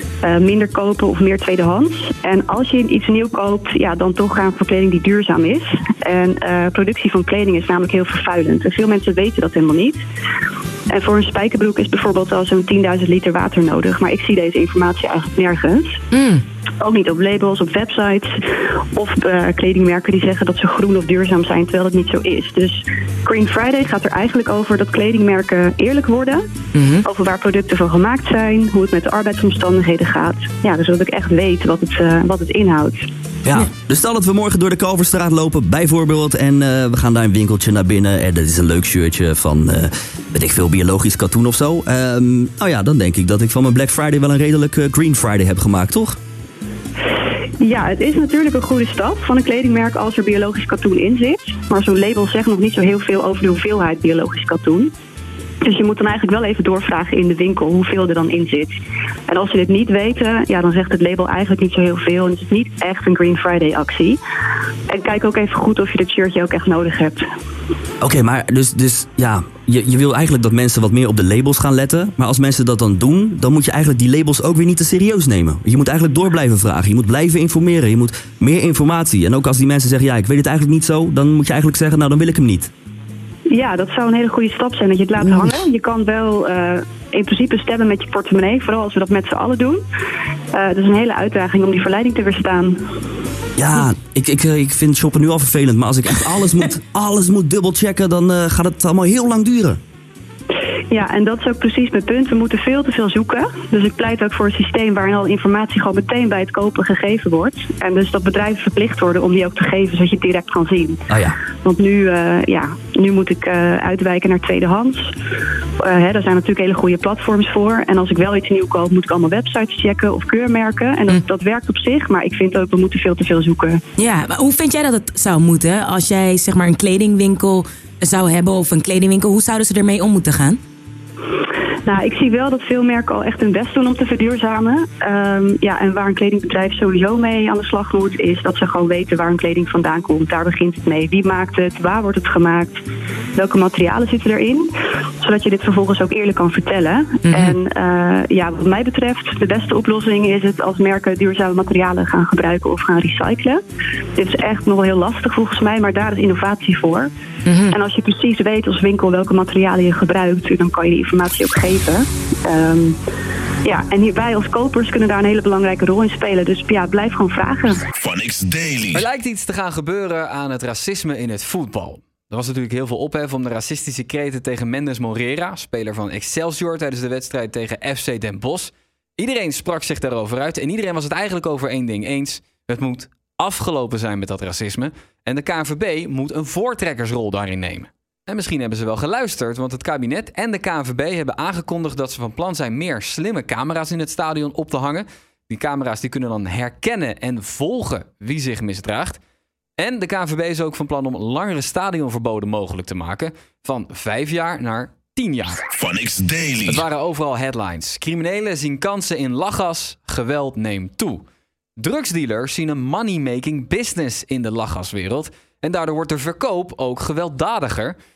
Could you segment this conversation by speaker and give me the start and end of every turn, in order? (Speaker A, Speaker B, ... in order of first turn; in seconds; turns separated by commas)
Speaker A: 0.2-10.0, Speaker A: 10.9-16.0, Speaker A: 16.8-18.4, Speaker A: 18.9-26.4, Speaker A: 27.0-33.1, Speaker B: 33.5-46.2, Speaker A: 47.6-54.9, Speaker A: 55.6-58.7, Speaker A: 59.3-64.2, Speaker A: 64.9-67.2, Speaker B: 68.0-82.7, Speaker A: 83.5-89.8, Speaker B: 85.2-85.5, Speaker A: 90.5-92.8, Speaker B: 93.6-99.8, Speaker A: 100.9-111.0, Speaker B: 111.1-111.4, Speaker A: 111.6-115.1, Speaker A: 115.8-123.8, Speaker C: 124.0-130.6, Speaker A: 131.9-142.8, Speaker A: 143.4-144.7, Speaker A: 145.2-153.6, Speaker A: 154.2-157.1, Speaker A: 157.7-163.0, Speaker A: 163.7-167.8, Speaker D: 167.9-169.1, Speaker E: 168.9-199.2, Speaker E: 199.8-205.6, Speaker D: 205.7-206.9, Speaker E: 206.7-211.2, Speaker E: 211.8-218.0